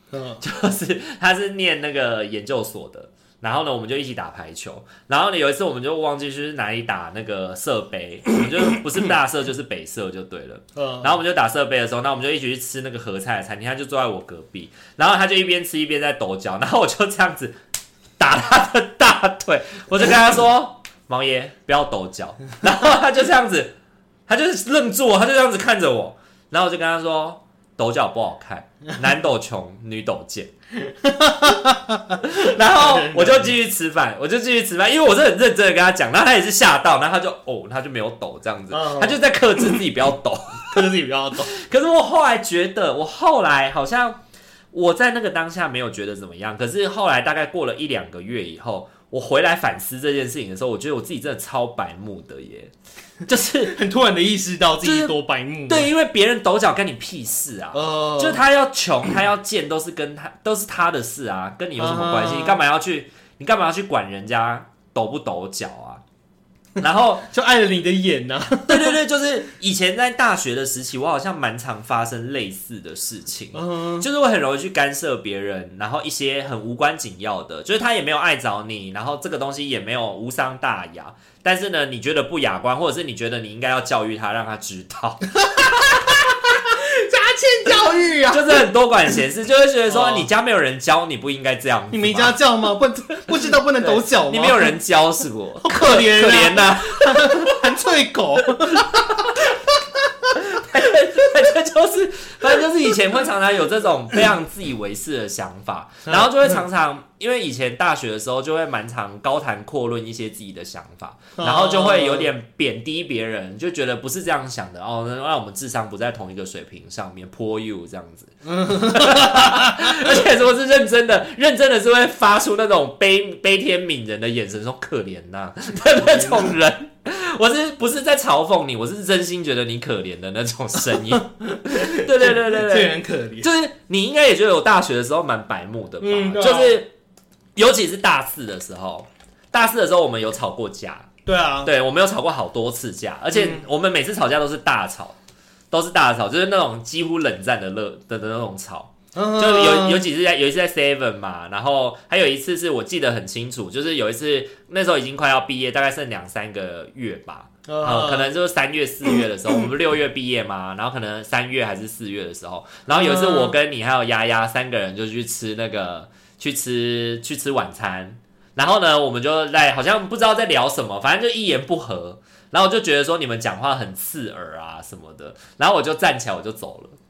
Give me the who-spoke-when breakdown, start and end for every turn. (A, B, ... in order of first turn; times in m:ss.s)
0:00.1-0:00.4 A
0:00.4-0:17.6 B
0:10.8-0:11.2 A
0:18.2-0:23.7 B
0:24.3-0:30.5 B
0:30.8-0:33.5 A
0:32.2-0:40.9 B
0:38.7-0:39.8 A
0:40.7-0:41.5 A
0:41.5-0:44.2 B
0:44.7-0:52.7 B
0:53.3-0:53.8 B
0:53.6-0:55.9 A
0:54.8-0:55.1 B
0:55.7-1:06.0 B
0:57.7-0:58.4 A
1:01.8-1:02.6 A
1:06.8-1:07.2 B
1:07.2-1:09.0 A
1:08.7-1:26.2 B
1:13.5-1:14.1 A
1:25.4-1:28.7 A
1:28.3-1:32.4 B
1:29.9-1:30.3 A
1:31.9-1:34.7 A
1:33.8-1:37.7 B
1:35.6-1:40.4 A
1:38.7-1:39.0 B
1:40.4-2:16.9 B
1:46.1-1:46.6 A
1:51.4-1:52.3 A
1:58.4-2:00.1 A
2:06.0-2:06.5 A
2:11.0-2:13.5 A
2:16.0-2:16.8 A
2:17.6-2:21.1 B
2:21.3-2:21.7 A
2:21.6-2:25.2 B
2:23.4-2:23.6 A
2:25.7-2:57.0 B
2:29.2-2:30.0 A
2:37.7-2:38.3 A
2:42.9-2:43.6 A